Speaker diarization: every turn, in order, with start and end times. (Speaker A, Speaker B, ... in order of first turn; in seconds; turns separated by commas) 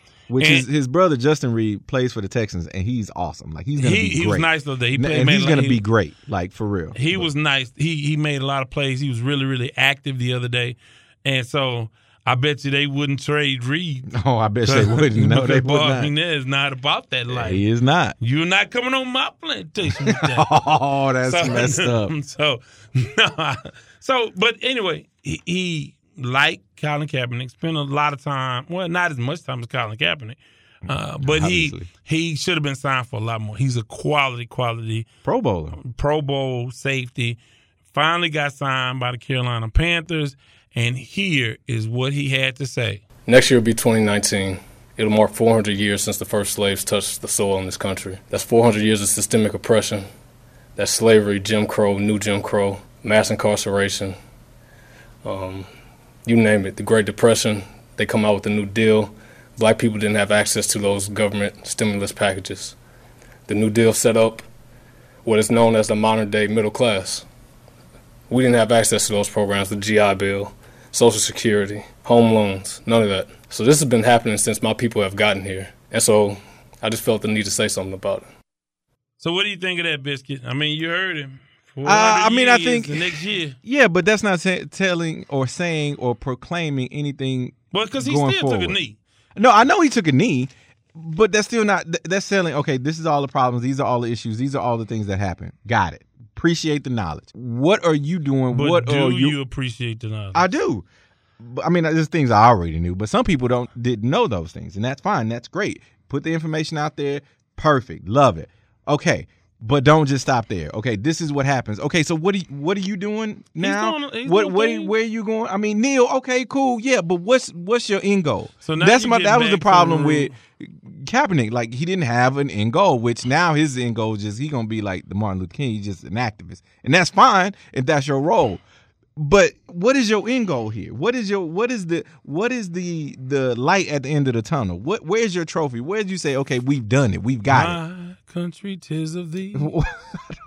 Speaker A: 0.3-7.3, Speaker B: 0.4-0.7, Speaker B: 3.8-5.8, Speaker B: 6.9-14.1, Speaker A: 14.1-16.1, Speaker B: 14.6-17.6, Speaker A: 17.3-18.1, Speaker B: 18.2-20.5, Speaker A: 19.9-22.1, Speaker B: 21.2-35.0, Speaker A: 30.9-31.9, Speaker A: 35.2-35.8, Speaker B: 35.8-37.4, Speaker B: 37.9-43.0, Speaker C: 43.2-50.1, Speaker C: 50.8-54.2, Speaker C: 55.2-55.7, Speaker C: 56.2-62.8, Speaker C: 63.5-64.5, Speaker C: 65.2-67.2, Speaker C: 68.3-78.3, Speaker B: 79.2-83.5, Speaker A: 81.8-88.8, Speaker B: 87.7-89.0, Speaker A: 89.3-99.3, Speaker B: 98.5-100.5, Speaker A: 100.3-100.8, Speaker A: 101.4-128.6, Speaker B: 113.6-114.9, Speaker B: 118.6-120.3, Speaker A: 129.2-137.8, Speaker B: 137.5-139.7, Speaker A: 139.5-140.2